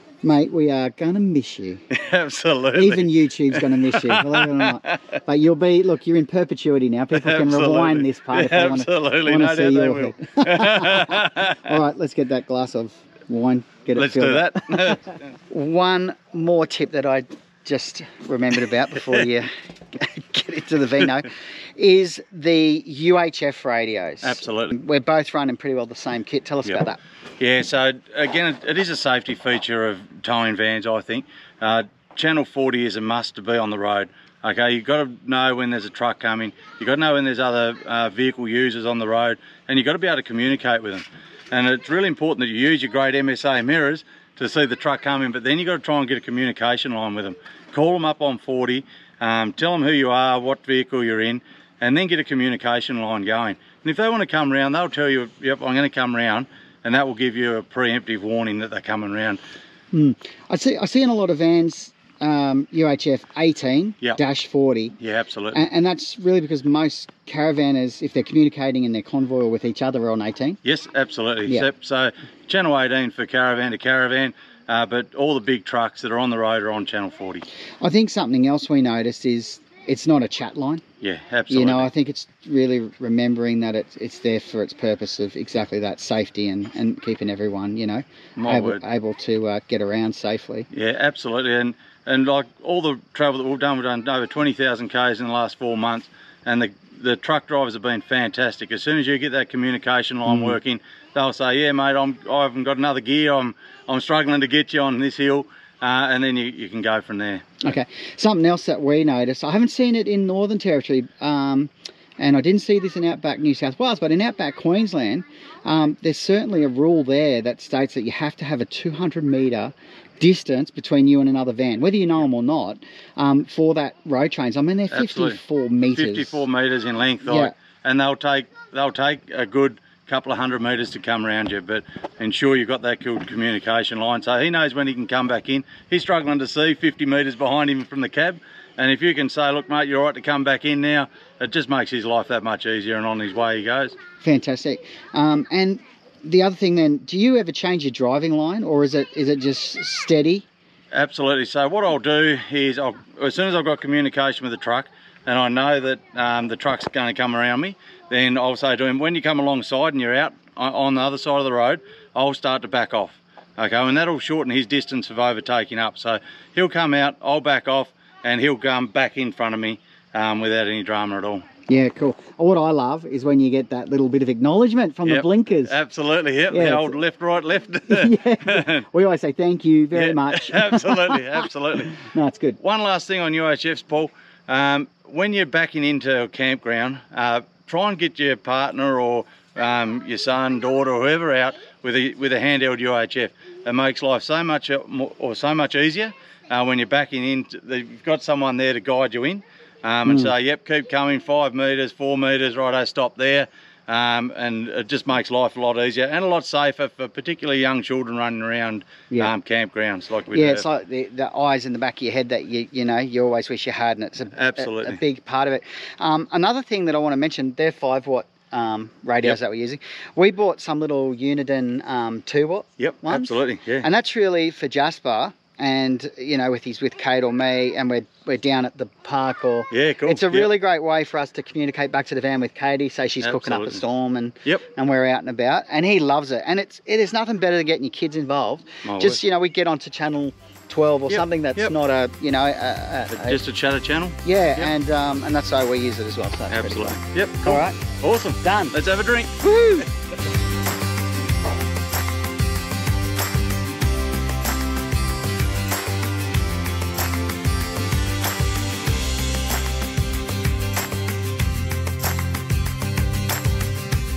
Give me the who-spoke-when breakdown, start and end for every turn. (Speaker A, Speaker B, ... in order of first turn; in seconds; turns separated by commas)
Speaker A: 0.2-1.9, Speaker B: 1.9-5.0, Speaker A: 2.8-27.0, Speaker B: 7.1-11.6, Speaker B: 13.9-15.2, Speaker B: 24.2-24.8, Speaker B: 27.4-59.4, Speaker A: 59.9-65.0, Speaker B: 65.0-65.6, Speaker A: 65.5-70.6, Speaker B: 70.6-77.5, Speaker A: 77.8-80.8, Speaker B: 81.0-81.9, Speaker A: 81.5-90.7, Speaker B: 88.4-88.8, Speaker B: 90.7-107.7, Speaker A: 100.3-100.6, Speaker A: 107.6-126.4, Speaker B: 124.9-125.4, Speaker B: 125.9-144.0, Speaker A: 127.2-127.5, Speaker A: 144.2-150.5, Speaker B: 150.9-171.4, Speaker A: 171.7-175.8, Speaker B: 175.1-178.8, Speaker A: 176.5-177.0, Speaker A: 177.9-182.6, Speaker B: 179.9-182.1, Speaker B: 182.6-210.7, Speaker A: 200.1-200.3, Speaker A: 210.3-243.4, Speaker B: 214.4-215.0, Speaker B: 222.8-223.9, Speaker B: 229.7-230.5, Speaker B: 233.2-233.8, Speaker B: 238.8-239.2, Speaker B: 241.1-241.7, Speaker B: 243.1-244.7, Speaker A: 244.2-247.9, Speaker B: 246.5-249.3, Speaker A: 248.4-248.8, Speaker A: 249.4-249.9